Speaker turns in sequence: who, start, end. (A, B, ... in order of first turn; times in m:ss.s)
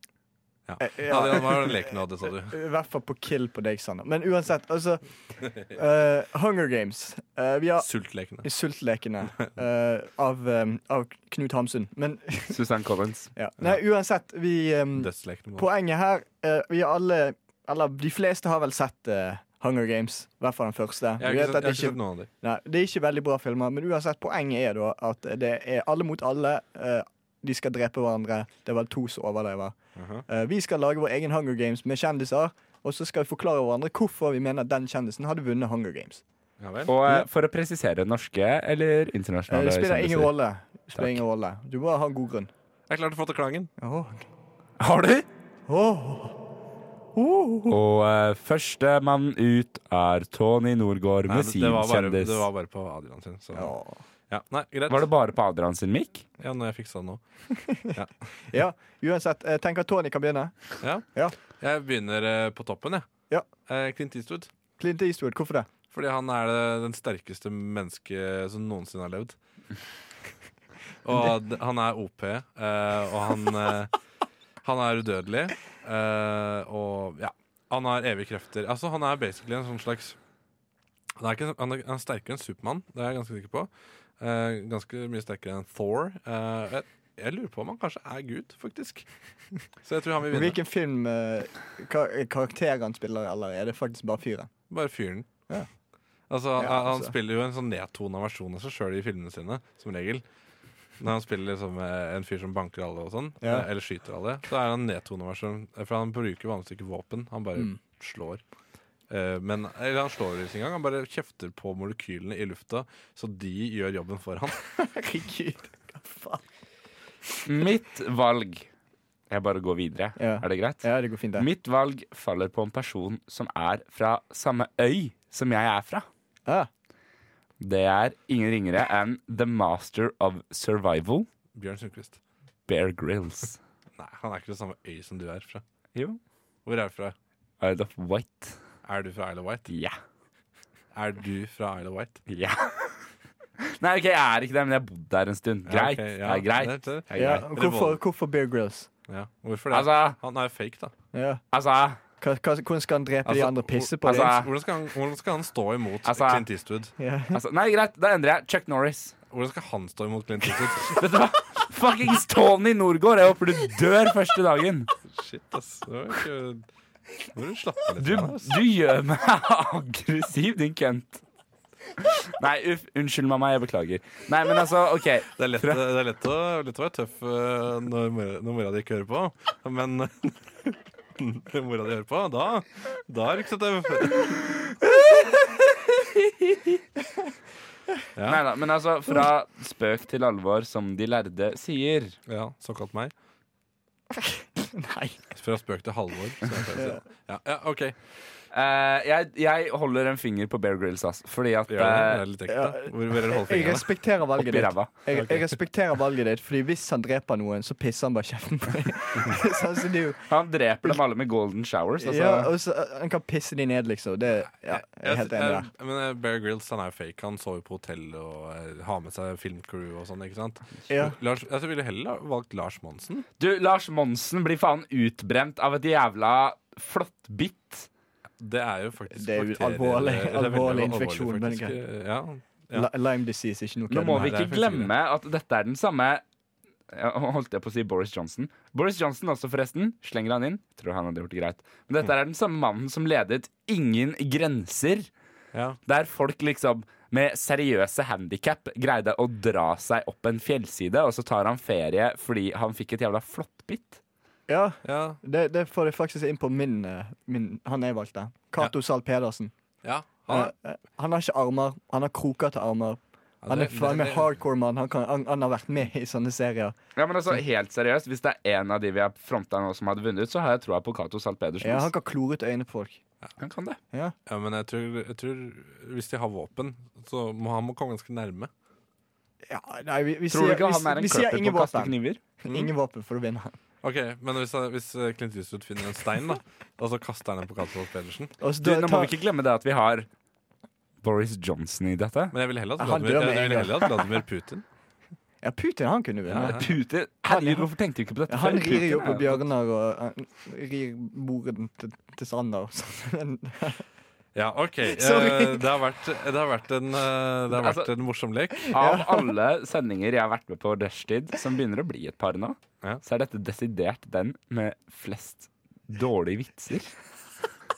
0:00.7-0:02.5 A
0:00.8-0:02.0 B
0:02.5-0:07.9 B
0:07.8-0:08.5 A
0:08.4-0:12.6 B
0:12.5-0:13.3 C
0:13.3-0:29.8 B
0:14.9-0:15.7 A
0:21.2-0:22.3 A
0:30.0-0:30.2 A
0:30.3-0:36.2 B
0:36.6-0:36.9 A
0:36.8-0:40.3 C
0:39.5-0:42.5 B
0:40.9-0:41.2 C
0:42.9-0:43.7 A
0:43.8-0:44.3 B
0:44.8-0:45.3 C
0:45.7-0:46.4 B
0:47.1-0:47.8 B
0:47.7-0:52.5 C
0:51.3-0:53.7 A
0:53.5-0:54.0 B
0:54.3-0:55.1 A
0:54.9-0:56.2 C
0:56.4-0:57.2 A
0:57.9-0:58.3 A
0:58.5-1:01.4 B
1:00.8-1:03.0 A
1:03.6-1:04.5 A
1:04.8-1:05.7 B
1:05.9-1:09.4 A
1:11.0-1:13.9 A
1:14.6-1:20.2 A
1:21.2-1:29.1 A
1:29.8-1:30.6 A
1:30.3-1:34.5 B
1:34.7-1:35.3 A
1:36.3-1:40.2 A
1:36.6-1:37.1 B
1:41.0-1:48.4 A
1:43.4-1:43.7 B
1:49.1-1:54.6 A
1:54.8-1:56.4 B
1:57.4-1:58.7 C
1:59.3-2:06.0 C
2:00.2-2:01.5 B
2:07.6-2:11.3 C
2:11.5-2:12.2 A
2:12.7-2:13.6 C
2:14.0-2:15.6 A
2:16.6-2:17.1 A
2:17.6-2:18.6 C
2:18.8-2:19.7 A
2:19.7-2:19.9 C
2:20.9-2:22.2 A
2:22.3-2:23.1 C
2:23.8-2:27.5 C
2:25.6-2:28.0 A
2:27.1-2:28.9 B
2:29.1-2:30.9 A
2:29.7-2:30.2 C
2:31.1-2:31.4 B
2:31.5-2:32.0 C
2:32.2-2:34.4 B
2:33.2-2:36.9 A
2:34.0-2:34.5 C
2:36.0-2:36.5 C
2:37.0-2:37.4 B
2:37.3-2:39.1 C
2:39.3-2:41.0 A
2:40.9-2:44.9 C
2:45.1-2:46.7 A
2:47.3-2:48.6 A
2:48.0-2:51.2 C
2:52.1-2:55.8 C
2:55.4-3:04.4 A
3:08.1-3:08.4 A
3:08.3-3:12.2 C
3:12.3-3:13.1 A
3:14.1-3:15.3 B
3:15.3-3:17.9 A
3:16.7-3:17.0 B
3:18.5-3:22.2 C
3:21.7-3:23.9 A
3:22.5-3:30.2 B
3:24.4-3:24.9 C
3:25.1-3:25.5 A
3:30.3-3:32.5 C
3:32.0-3:35.7 B
3:34.7-3:43.2 A
3:40.9-3:41.2 B
3:43.4-3:47.9 C
3:48.4-3:52.9 A
3:49.1-3:51.8 B
3:52.7-3:54.4 B
3:53.9-3:56.2 C
3:54.2-3:54.9 A
3:56.9-4:05.1 C
4:05.5-4:05.8 A
4:05.8-4:14.0 C
4:14.5-4:19.5 B
4:14.8-4:15.2 A
4:19.8-4:20.5 A
4:20.3-4:26.8 B
4:23.4-4:24.4 A
4:27.0-4:31.9 C
4:31.6-4:33.0 B
4:33.4-4:33.8 C
4:34.2-4:38.5 A
4:39.5-4:43.6 B
4:40.3-4:42.2 C
4:43.8-4:48.3 A
4:48.4-4:49.1 B
4:48.6-4:50.1 C
4:51.0-4:52.3 C
4:52.3-4:54.6 A
4:52.8-4:53.8 B
4:55.4-4:56.7 B
4:56.2-4:56.7 A
4:56.4-4:59.4 C
4:57.3-4:57.7 B
4:58.3-5:03.8 B
5:04.3-5:08.8 A
5:04.9-5:05.7 B
5:07.5-5:07.9 C
5:08.7-5:09.3 B
5:08.7-5:16.9 C